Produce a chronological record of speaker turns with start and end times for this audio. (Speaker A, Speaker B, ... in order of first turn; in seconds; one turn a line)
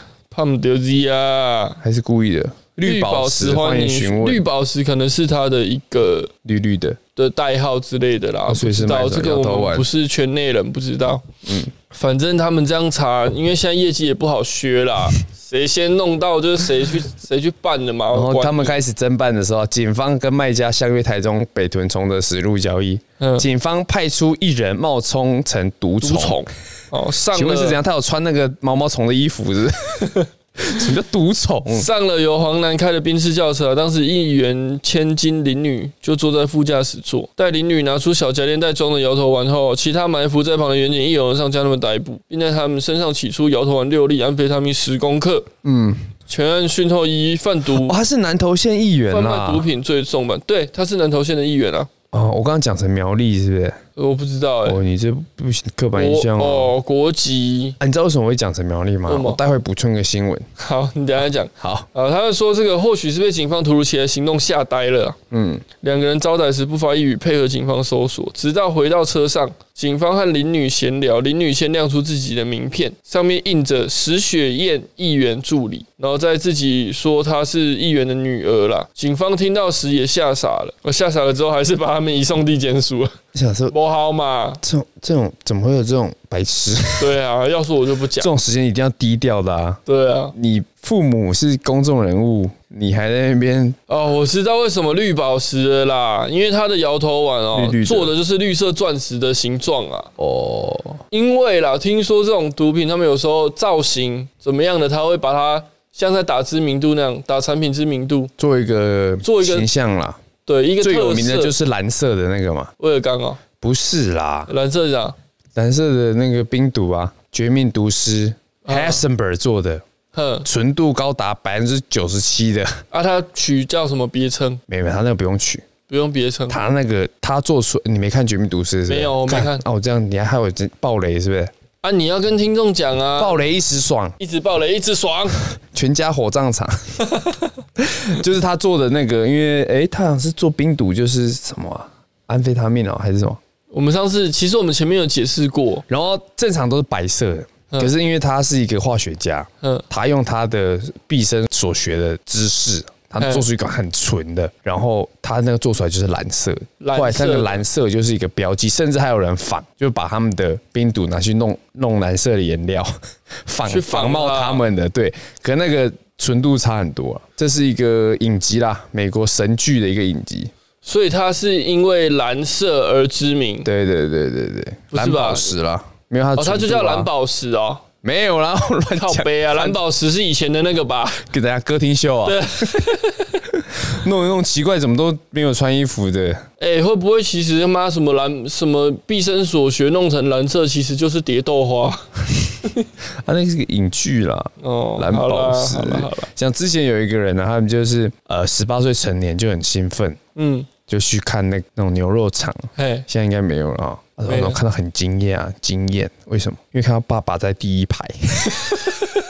Speaker A: 0.3-1.8
Speaker B: 1.8-4.4
Speaker A: 2.8-6.3
Speaker B: 6.4-7.0
Speaker A: 7.2-11.3
Speaker B: 8.5-9.9
Speaker B: 11.4-11.7
Speaker A: 11.9-18.8
Speaker B: 18.1-26.5
Speaker A: 23.2-23.5
Speaker A: 26.0-27.8
Speaker B: 27.2-31.9
Speaker A: 31.7-45.5
Speaker B: 45.6-46.1
Speaker A: 46.3-48.0
Speaker B: 47.7-49.7
Speaker A: 49.1-51.9
Speaker B: 52.1-53.8
Speaker A: 54.0-54.8
Speaker B: 54.6-56.7
Speaker A: 55.9-57.8
Speaker B: 57.8-60.5
Speaker A: 59.1-59.4
Speaker A: 60.6-65.2
Speaker B: 61.6-61.9
Speaker B: 65.3-65.6
Speaker A: 65.8-83.1
Speaker B: 83.3-83.7
Speaker A: 83.7-84.6
Speaker B: 84.6-87.1
Speaker A: 87.0-88.3
Speaker B: 88.2-89.8
Speaker A: 89.8-90.3
Speaker B: 90.3-93.8
Speaker A: 93.9-100.1
Speaker B: 97.5-98.1
Speaker B: 100.2-101.0
Speaker A: 101.1-108.3
Speaker B: 108.4-110.2
Speaker A: 109.2-109.7
Speaker A: 110.4-111.5
Speaker B: 110.8-112.7
Speaker A: 112.8-113.4
Speaker B: 113.6-114.5
Speaker A: 114.5-115.2
Speaker B: 115.5-119.8
Speaker A: 118.7-119.0
Speaker A: 120.1-120.5
Speaker B: 120.4-122.8
Speaker A: 122.9-124.6
Speaker B: 124.7-125.7
Speaker A: 125.9-126.6
Speaker B: 126.5-131.5
Speaker A: 128.9-129.6
Speaker A: 131.8-133.4
Speaker B: 133.2-134.1
Speaker A: 134.2-135.4
Speaker B: 135.7-136.8
Speaker B: 137.8-143.4
Speaker A: 143.7-145.8
Speaker B: 145.9-170.5
Speaker A: 153.2-153.4
Speaker A: 156.8-157.6
Speaker A: 163.6-164.7
Speaker A: 170.8-173.7
Speaker B: 173.6-177.1
Speaker A: 174.9-175.5
Speaker A: 176.4-177.8
Speaker B: 178.0-179.8
Speaker A: 178.9-181.3
Speaker B: 181.2-182.8
Speaker A: 182.2-183.4
Speaker B: 183.5-186.4
Speaker A: 186.6-192.1
Speaker B: 193.2-200.2
Speaker A: 194.6-196.3
Speaker A: 200.3-200.7
Speaker B: 200.9-208.8
Speaker A: 202.8-203.1
Speaker A: 204.3-204.6